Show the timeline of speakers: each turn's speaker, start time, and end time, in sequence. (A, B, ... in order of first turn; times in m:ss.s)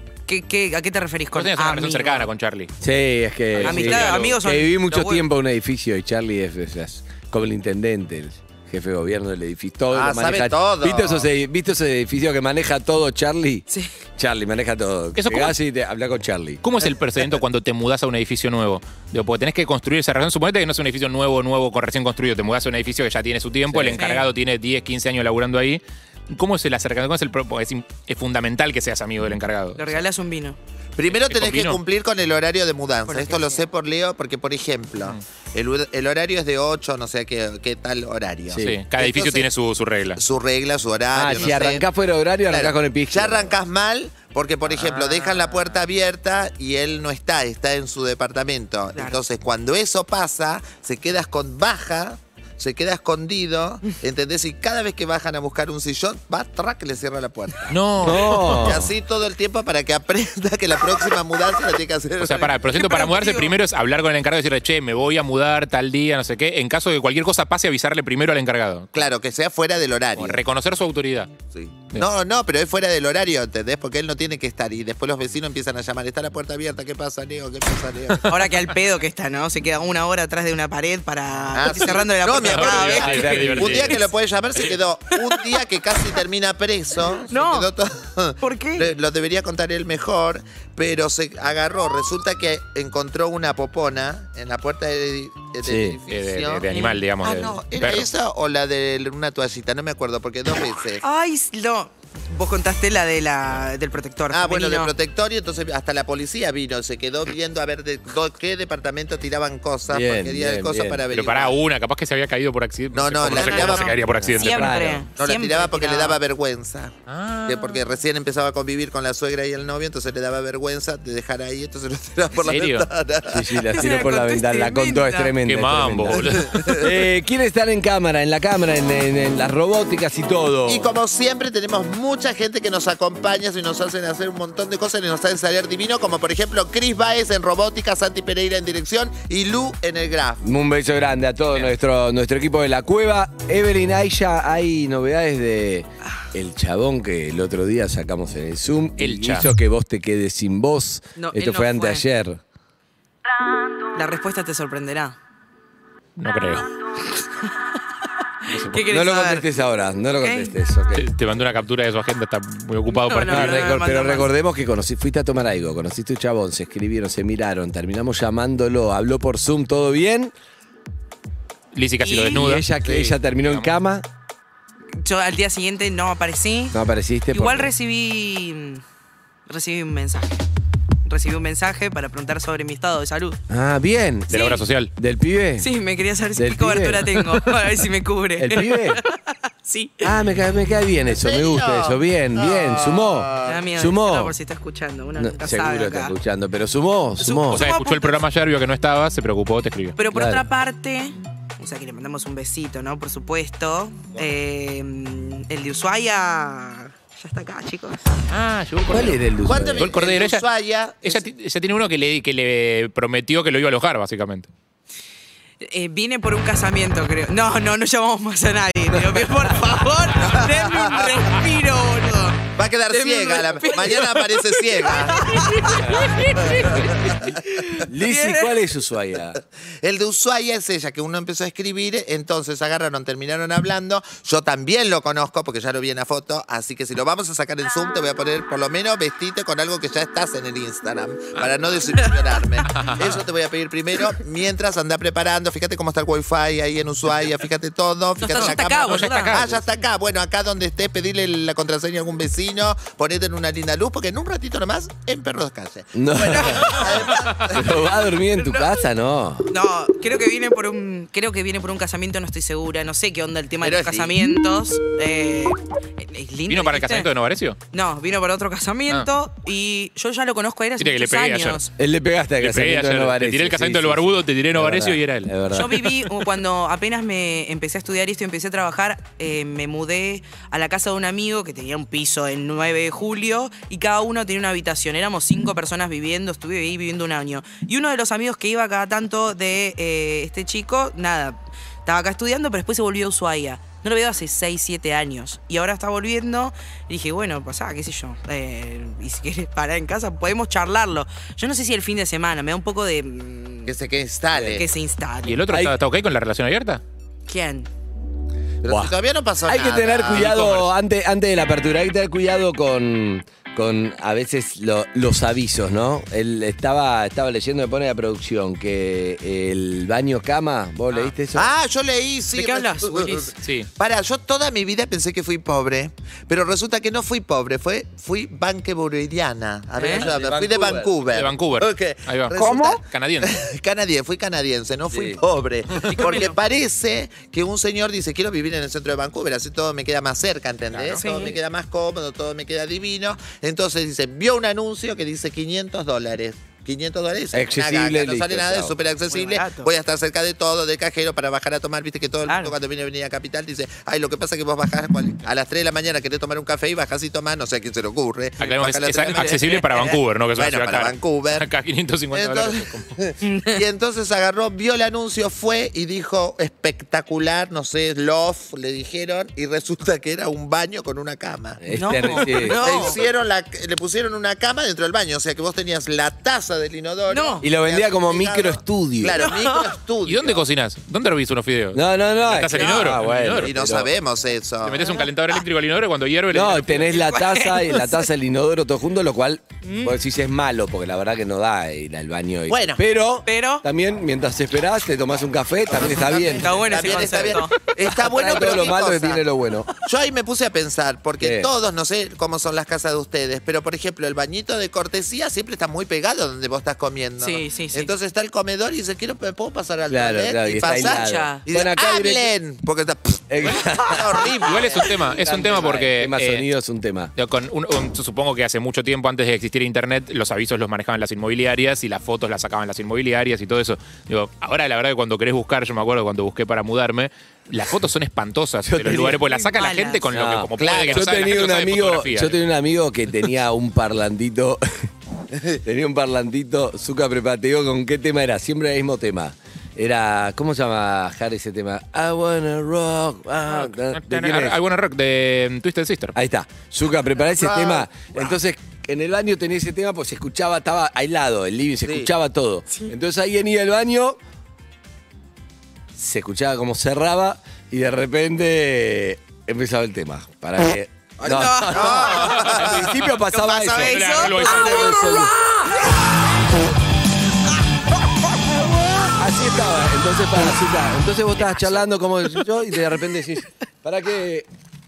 0:00.3-0:02.3 A
0:01.3-0:02.7 B
0:02.8-0:13.6 C
0:03.5-0:04.4 B
0:03.6-0:05.2 A
0:09.9-0:11.3 D
0:14.2-0:16.6 C
0:15.2-0:15.5 B
0:16.6-0:30.0 B
0:23.7-0:24.0 C
0:23.9-0:24.2 A
0:29.8-0:30.6 A
0:31.0-0:39.5 D
0:31.1-0:31.8 B
0:33.1-0:33.7 A
0:38.5-0:38.8 C
0:38.6-0:40.2 B
0:40.2-0:41.8 D
0:41.1-0:43.5 C
0:42.5-1:02.6 D
0:44.7-0:45.8 B
0:48.9-0:49.2 A
0:57.7-0:58.8 B
0:58.0-0:58.9 C
1:02.2-1:09.0 B
1:02.7-1:03.5 A
1:08.9-1:10.4 D
1:10.2-1:11.3 B
1:11.5-1:18.3 D
1:18.2-1:24.1 A
1:21.5-1:41.0 D
1:22.4-1:24.0 B
1:23.0-1:23.9 C
1:27.3-1:27.7 A
1:28.4-1:28.9 A
1:35.6-1:36.0 C
1:36.1-1:38.1 B
1:41.0-1:44.9 A
1:44.3-1:51.6 D
1:49.9-1:51.2 C
1:51.1-1:54.8 B
1:52.9-1:53.9 D
1:53.3-1:56.2 A
1:53.9-1:55.0 C
1:55.2-1:56.9 D
1:57.1-1:57.8 B
1:57.5-2:03.5 D
2:02.4-2:02.9 B
2:03.2-2:10.9 C
2:03.7-2:05.4 A
2:05.4-2:06.9 B
2:06.4-2:06.9 D
2:10.6-2:20.4 D
2:20.4-2:32.4 C
2:29.0-2:29.5 B
2:31.2-2:32.0 A
2:33.9-2:35.2 A
2:36.2-2:36.7 B
2:38.5-2:38.8 B
2:38.7-2:39.5 A
2:38.8-2:41.1 C
2:40.2-2:40.5 A
2:40.9-2:43.7 B
2:42.9-2:44.3 A
2:43.3-2:50.3 C
2:51.7-2:52.7 B
2:52.0-2:52.4 A
2:52.2-2:54.0 C
2:52.8-2:53.2 D
2:53.4-2:53.7 B
2:55.0-2:56.8 A
2:56.7-2:57.7 C
2:57.3-2:58.8 A
2:59.5-3:00.4 A
3:01.0-3:03.4 A
3:03.5-3:05.7 C
3:04.3-3:04.9 B
3:04.3-3:04.6 A
3:05.6-3:10.1 A
3:06.4-3:07.3 C
3:08.4-3:09.0 C
3:10.0-3:14.3 C
3:11.1-3:13.6 D
3:13.4-3:16.1 A
3:15.1-3:17.7 C
3:17.2-3:18.2 A
3:17.5-3:20.0 B
3:20.0-3:28.1 A
3:20.1-3:20.4 C
3:28.3-3:29.2 B
3:28.9-3:29.9 C
3:29.4-3:31.2 D
3:29.8-3:30.4 B
3:31.0-3:34.5 B
3:35.6-3:46.7 A
3:38.9-3:39.4 C
3:40.2-3:41.3 D
3:42.6-3:45.5 D
3:45.8-3:49.4 C
3:46.4-3:47.2 D
3:47.5-3:48.5 A
3:49.8-4:17.7 D
4:02.7-4:03.2 B
4:08.2-4:09.4 A
4:08.4-4:09.6 B
4:15.9-4:16.8 C
4:16.4-4:16.9 A
4:17.4-4:19.5 C
4:18.4-4:18.7 A
4:19.5-4:27.1 A
4:23.6-4:24.3 D
4:26.5-4:27.6 B
4:27.7-4:31.7 A
4:30.8-4:31.6 B
4:31.8-4:36.1 C
4:32.4-4:35.3 B
4:35.5-5:03.7 A
5:03.7-5:04.7 D
5:04.3-5:04.6 C
5:04.5-5:05.4 A
5:05.2-5:06.8 B
5:05.5-5:05.8 C
5:07.3-5:07.7 A
5:08.6-5:10.4 D
5:08.6-5:08.9 C
5:09.4-5:21.5 C
5:10.1-5:10.7 B
5:21.3-6:01.4 D
5:22.3-5:23.3 A
5:23.4-5:23.7 B
5:29.8-5:30.1 A
5:29.9-5:30.9 C
5:31.1-5:33.4 B
5:34.9-5:35.2 C
5:35.8-5:36.4 A
5:40.7-5:41.0 B
5:41.0-5:41.3 A
5:47.3-5:48.8 C
5:49.1-5:49.7 A
5:52.3-5:52.5 A
5:58.4-6:02.8 B
5:59.1-6:00.0 A
6:02.1-6:20.4 D
6:03.2-6:03.6 A
6:11.6-6:13.0 C
6:11.7-6:13.0 A
6:17.1-6:17.4 A
6:17.4-6:19.3 C
6:19.1-6:19.7 A
6:20.0-6:23.5 B
6:21.7-6:23.9 C
6:23.4-6:24.8 D
6:24.6-6:26.9 B
6:24.8-6:25.1 A
6:26.3-6:37.2 C
6:26.9-6:28.1 A
6:29.6-6:30.0 A
6:32.5-6:32.8 D
6:33.2-6:33.6 A
6:35.7-6:39.2 D
6:36.3-6:37.5 A
6:37.8-6:39.7 C
6:39.8-6:54.9 D
6:41.2-6:41.5 C
6:47.2-6:47.9 A
6:49.9-6:52.3 C
6:50.6-6:51.4 A
6:53.3-6:54.3 C
6:54.4-6:56.4 B
6:55.0-6:57.1 C
6:57.2-7:12.4 B
7:08.6-7:09.2 C
7:09.0-7:10.0 A
7:10.1-7:14.9 C
7:10.6-7:11.1 D
7:15.6-7:24.6 C
7:23.6-7:26.1 B
7:26.1-7:34.2 C
7:27.3-7:28.0 D
7:36.0-7:45.7 C
7:41.2-7:43.0 D
7:41.2-7:42.3 A
7:42.3-7:43.1 B
7:43.3-7:44.9 A
7:43.8-7:44.9 B
7:48.4-7:54.5 C